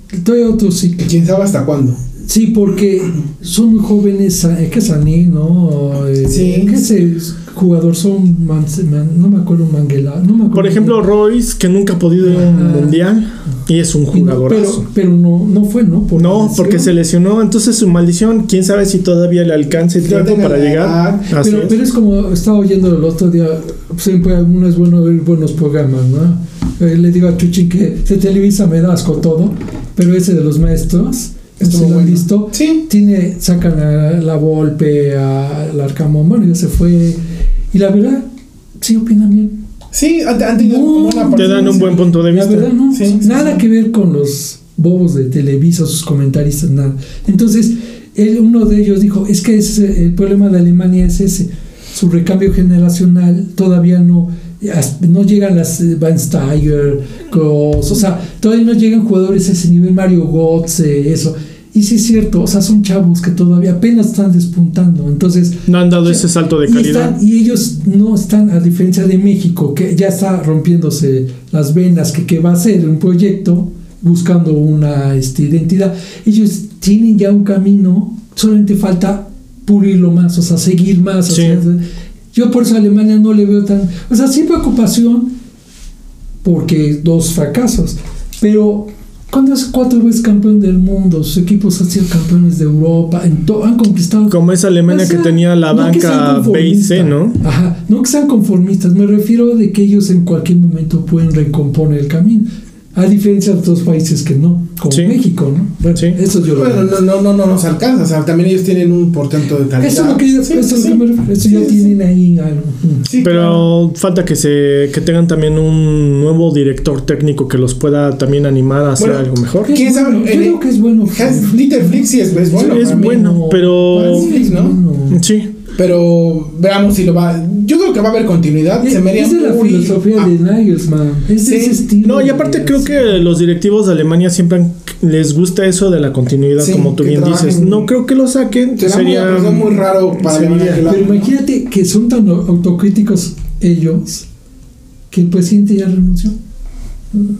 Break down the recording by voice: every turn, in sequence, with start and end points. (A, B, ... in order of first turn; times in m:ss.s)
0:00.1-0:01.0 A
0:01.0-0:02.0 B
0:02.3-0:11.0 A
0:06.3-0:06.8 B
0:10.5-0:14.8 C
0:12.2-0:13.0 A
0:14.1-0:16.9 A
0:16.2-0:21.8 C
0:20.0-0:21.3 B
0:21.3-0:37.2 A
0:31.6-0:32.8 B
0:37.7-0:38.3 A
0:38.8-0:39.6 A
0:39.9-0:43.6 B
0:40.6-1:21.8 A
0:41.4-0:42.7 C
1:05.7-1:07.2 C
1:21.3-1:21.6 C
1:22.3-1:25.4 A
1:26.4-1:46.9 A
1:34.3-1:37.4 C
1:44.9-1:45.2 C
1:46.5-1:52.0 B
1:49.8-1:53.1 A
1:53.0-1:53.7 B
1:53.2-1:59.7 C
1:59.0-2:03.4 B
1:59.7-2:05.2 A
2:02.6-2:04.3 C
2:03.9-2:04.8 B
2:05.1-2:05.5 C
2:05.8-2:10.3 B
2:08.8-2:13.2 A
2:11.4-2:11.8 B
2:12.0-2:20.8 C
2:16.6-2:17.9 B
2:18.8-2:21.3 B
2:20.8-2:24.3 A
2:25.1-2:26.4 A